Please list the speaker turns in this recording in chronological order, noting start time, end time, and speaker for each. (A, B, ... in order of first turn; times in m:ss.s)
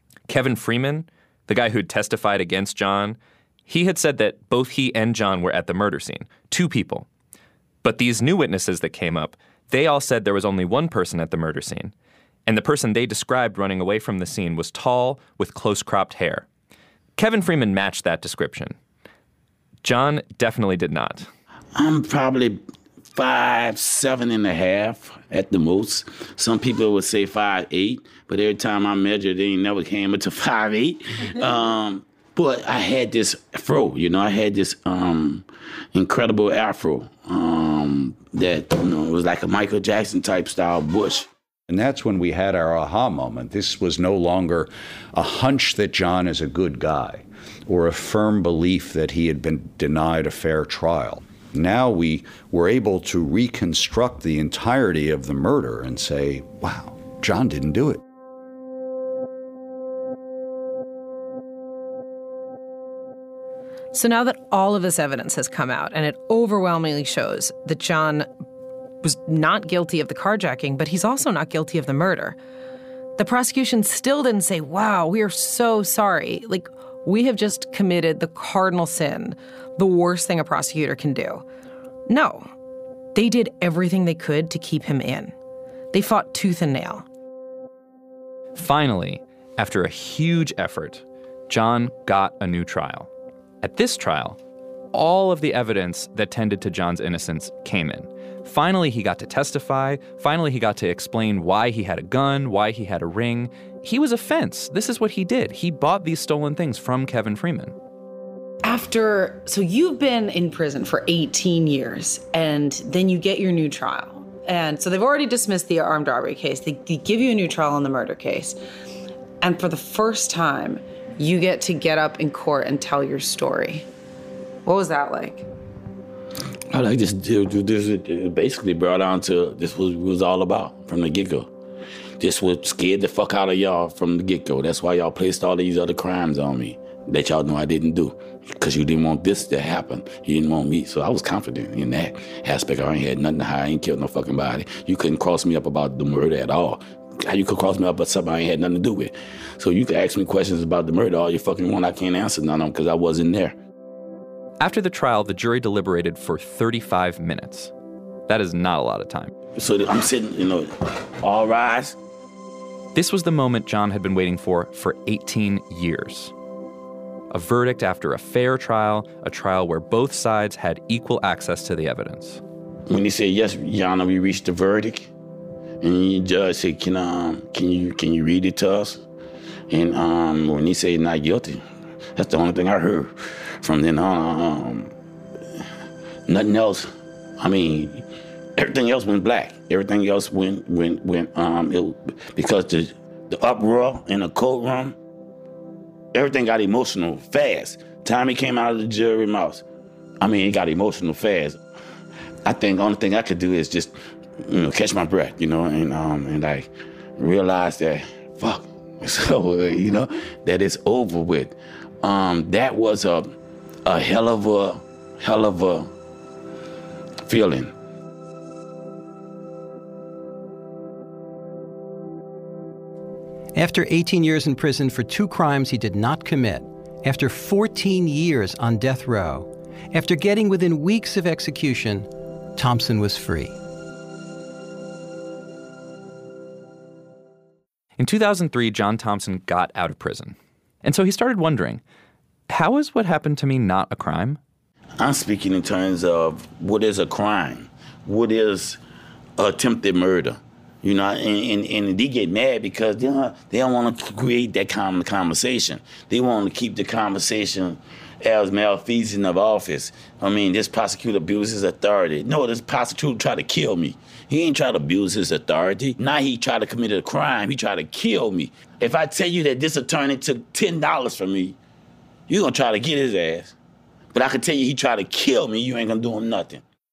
0:00.3-0:07.1 A
0:07.8-0:11.9 A
0:12.5-0:16.4 A
0:17.2-0:18.8 A
0:19.8-0:21.3 A
0:21.7-0:22.6 B
0:23.1-0:41.3 B
0:41.7-0:58.0 C
1:03.9-1:08.3 D
1:09.0-1:12.4 D
1:13.2-1:21.4 D
1:22.1-1:22.5 D
1:23.1-1:25.3 D
1:25.9-1:27.0 D
1:28.6-1:33.1 A
1:33.6-1:34.4 A
1:34.9-1:47.8 A
1:48.6-1:58.6 D
1:59.4-2:03.9 D
2:04.6-2:05.4 D
2:06.7-2:11.5 B
2:12.2-2:33.5 B
2:34.6-2:37.7 A
2:38.3-2:39.3 A
2:39.5-2:42.0 B
2:42.9-2:46.3 A
2:47.3-2:52.4 A
2:52.9-2:55.1 B
2:55.8-2:59.0 B
2:59.7-3:01.6 B
3:02.2-3:04.9 B
3:06.3-3:08.0 B
3:08.6-3:15.0 B
3:16.1-3:19.6 B
3:20.2-3:21.6 B
3:22.4-3:33.3 B
3:33.8-3:35.9 B
3:37.2-3:37.7 B
3:43.5-3:53.6 E
3:58.0-4:01.8 A
4:02.5-4:04.4 A
4:05.0-4:08.8 B
4:09.4-4:31.6 B
4:32.3-4:33.5 B
4:34.1-4:36.6 B